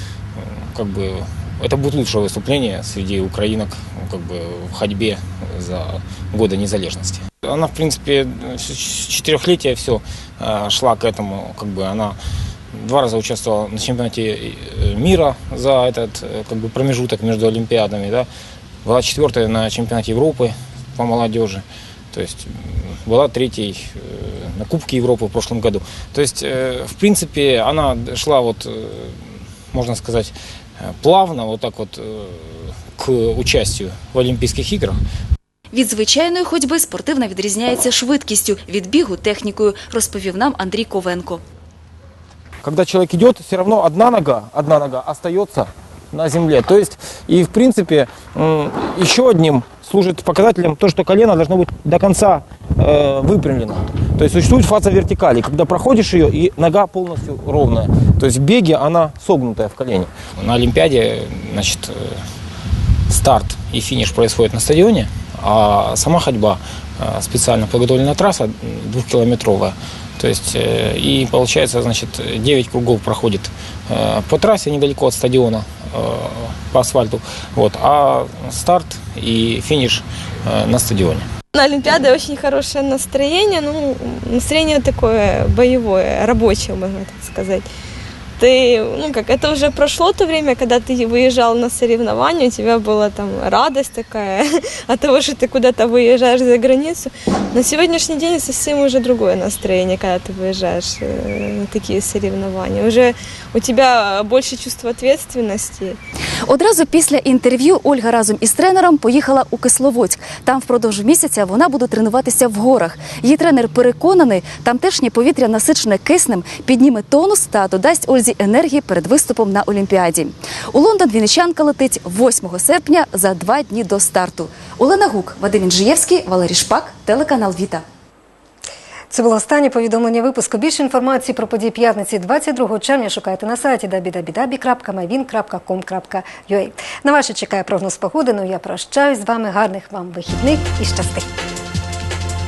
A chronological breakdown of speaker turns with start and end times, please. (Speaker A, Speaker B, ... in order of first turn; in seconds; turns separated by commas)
Speaker A: 0.4-12.2, Speaker A: 12.7-18.3, Speaker A: 18.8-30.3, Speaker A: 30.8-35.0, Speaker B: 35.7-41.4, Speaker A: 42.6-62.2, Speaker A: 63.1-81.2, Speaker C: 81.5-87.6, Speaker C: 88.4-106.0, Speaker B: 106.5-127.8, Speaker D: 129.1-141.3